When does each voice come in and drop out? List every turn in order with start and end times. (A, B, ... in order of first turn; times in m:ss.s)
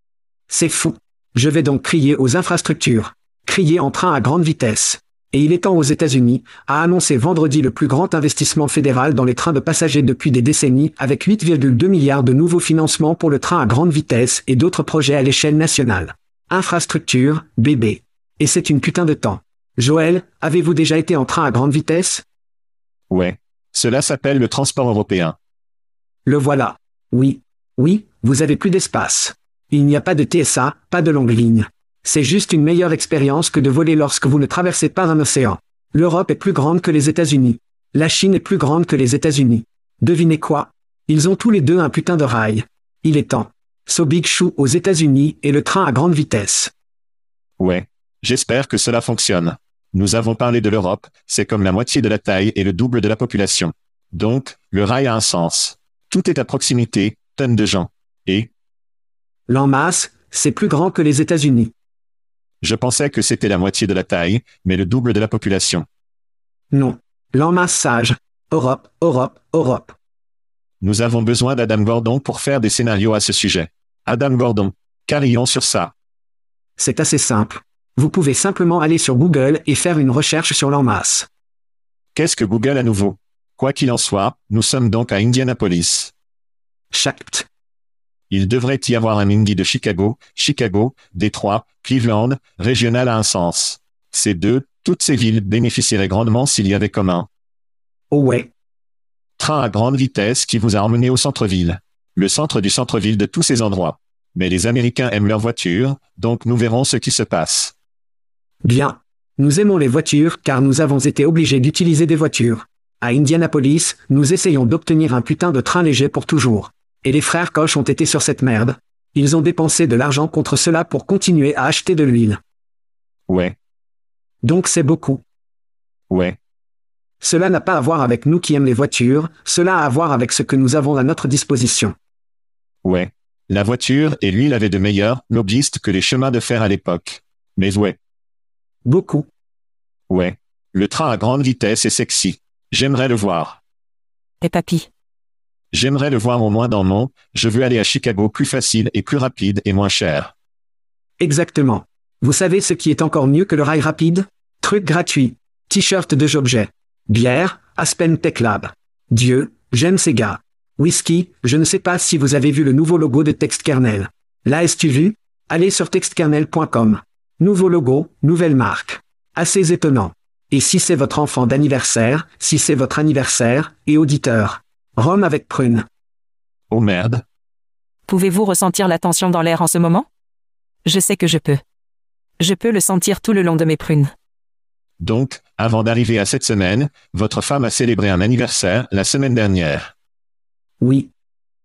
0:00.5-0:22.2 A
0:23.1-0:25.4 B
0:26.3-0:46.7 A
0:47.6-0:58.5 B
0:59.5-1:01.7 A
1:02.6-1:05.9 B
1:06.7-1:10.0 A
1:10.8-1:15.9 B
1:16.8-1:21.3 A
1:22.2-1:26.1 B
1:26.9-1:27.5 A
1:28.3-1:37.3 B
1:38.1-1:38.5 A
1:39.4-1:47.7 B
1:48.6-2:02.4 A
2:03.3-2:03.6 B
2:04.4-2:05.2 A
2:06.1-2:06.4 B
2:07.2-2:12.0 A
2:12.8-2:18.0 B
2:18.8-2:19.3 A
2:20.1-2:23.6 B
2:24.4-2:24.9 C
2:25.7-2:30.3 B
2:31.2-2:55.9 A
2:56.7-2:57.2 B
2:58.1-3:00.1 C
3:00.8-3:01.6 C
3:02.4-3:04.1 C
3:05.0-3:09.9 B
3:10.8-3:11.1 A